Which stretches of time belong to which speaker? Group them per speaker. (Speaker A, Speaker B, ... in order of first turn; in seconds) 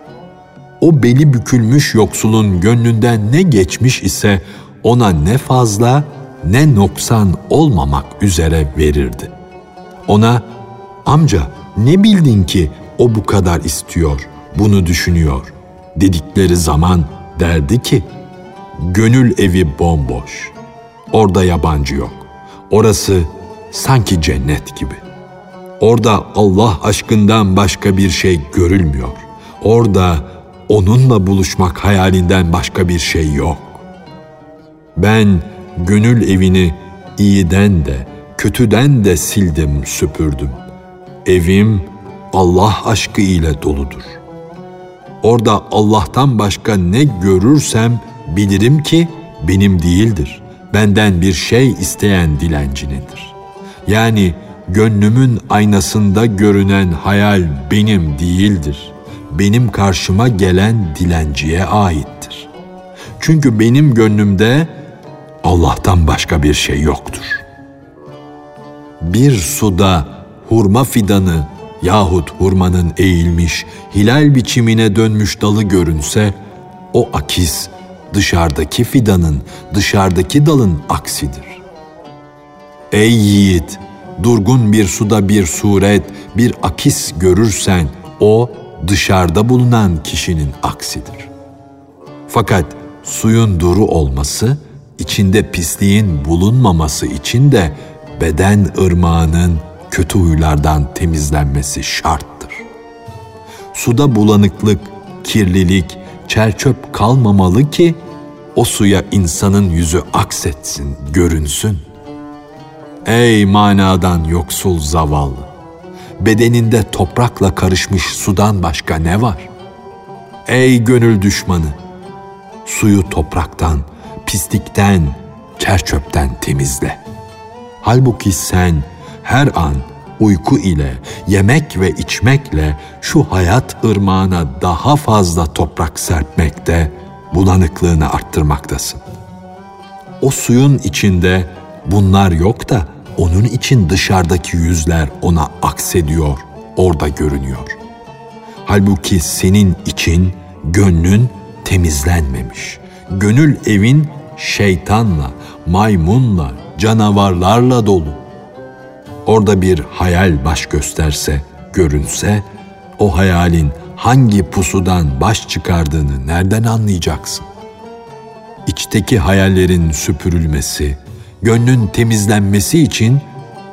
Speaker A: 0.8-9.3, 10.1-10.4, 11.1-18.1, 18.8-20.6, 21.1-25.0, 25.8-33.9, 35.0-40.6, 41.2-44.2, 45.2-62.5, 63.2-64.7, 65.4-67.4, 69.0-76.3, 76.9-81.6, 82.9-91.3, 92.3-102.7, 103.7-108.0, 108.5-111.8, 113.0-115.5, 116.2-119.5, 120.5-121.8, 122.7-127.0, 127.8-139.0, 140.2-147.8, 148.7-158.2, 159.3-162.4, 163.0-167.5, 168.7-173.3